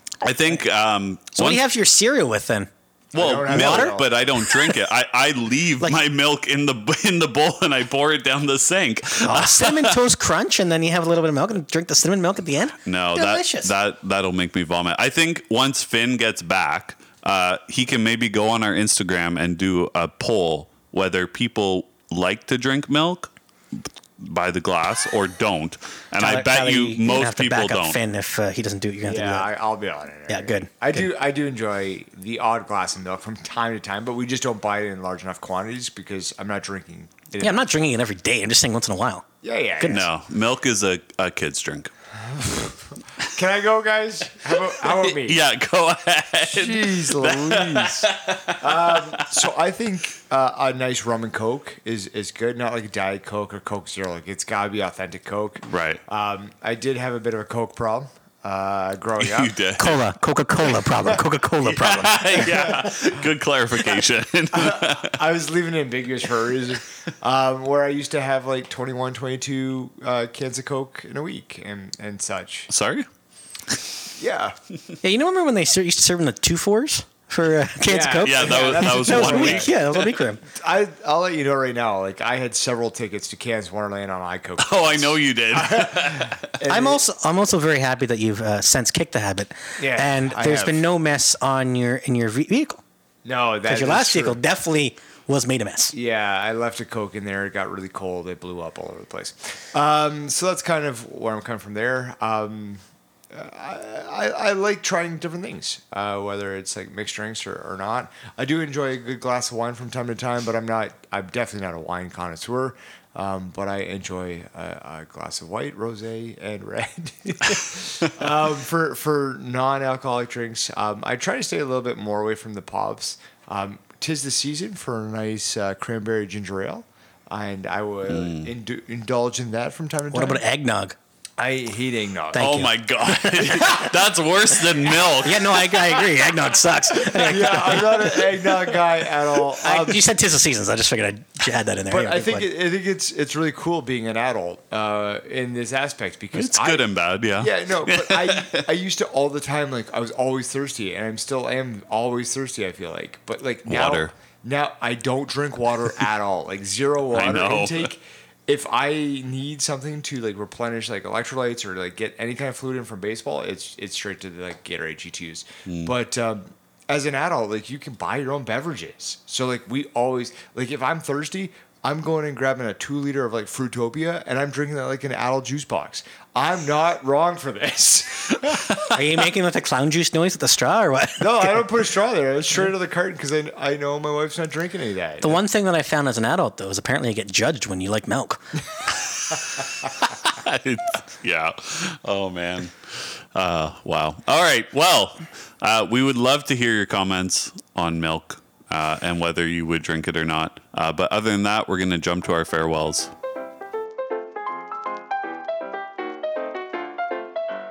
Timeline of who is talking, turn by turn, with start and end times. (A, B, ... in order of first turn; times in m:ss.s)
0:00.2-0:01.6 A
0:01.3-0:02.7 B
0:03.1-0:04.1 C
0:03.1-0:10.0 A
0:03.4-0:04.7 B
0:09.2-0:13.7 B
0:12.8-0:28.0 A
0:26.2-0:29.5 B
0:29.0-0:37.6 C
0:30.3-0:31.0 B
0:37.4-0:39.2 B
0:39.4-0:40.1 C
0:39.8-0:40.1 B
0:39.8-0:41.9 A
0:42.2-0:45.4 C
0:44.7-0:49.4 A
0:46.5-0:59.6 C
0:55.7-0:56.0 A
0:59.2-1:00.0 A
0:59.8-1:02.7 B
1:01.0-1:05.2 A
1:02.4-1:03.2 C
1:04.5-1:12.7 C
1:12.7-1:13.0 A
1:14.2-1:14.6 C
1:15.0-1:20.4 B
1:17.9-1:19.8 C
1:18.2-1:19.8 A
1:20.4-1:27.0 C
1:24.6-1:26.5 A
1:26.7-1:32.8 B
1:29.8-1:30.9 C
1:33.2-1:34.4 C
1:33.7-1:35.9 B
1:35.9-2:10.4 C
2:08.1-2:08.5 A
2:10.1-2:11.0 B
2:11.4-2:12.4 C
2:12.3-2:13.9 B
2:12.3-2:15.8 A
2:14.8-2:18.3 B
2:17.0-2:20.0 C
2:19.6-2:22.4 B
2:21.9-2:26.9 C
2:26.3-2:28.7 A
2:27.4-2:58.8 C
2:33.6-2:34.1 A
2:37.1-2:37.9 A
2:45.6-2:45.9 A
2:58.9-3:01.7 B
3:01.2-3:05.4 C
3:05.2-3:08.5 B
3:09.1-3:23.1 A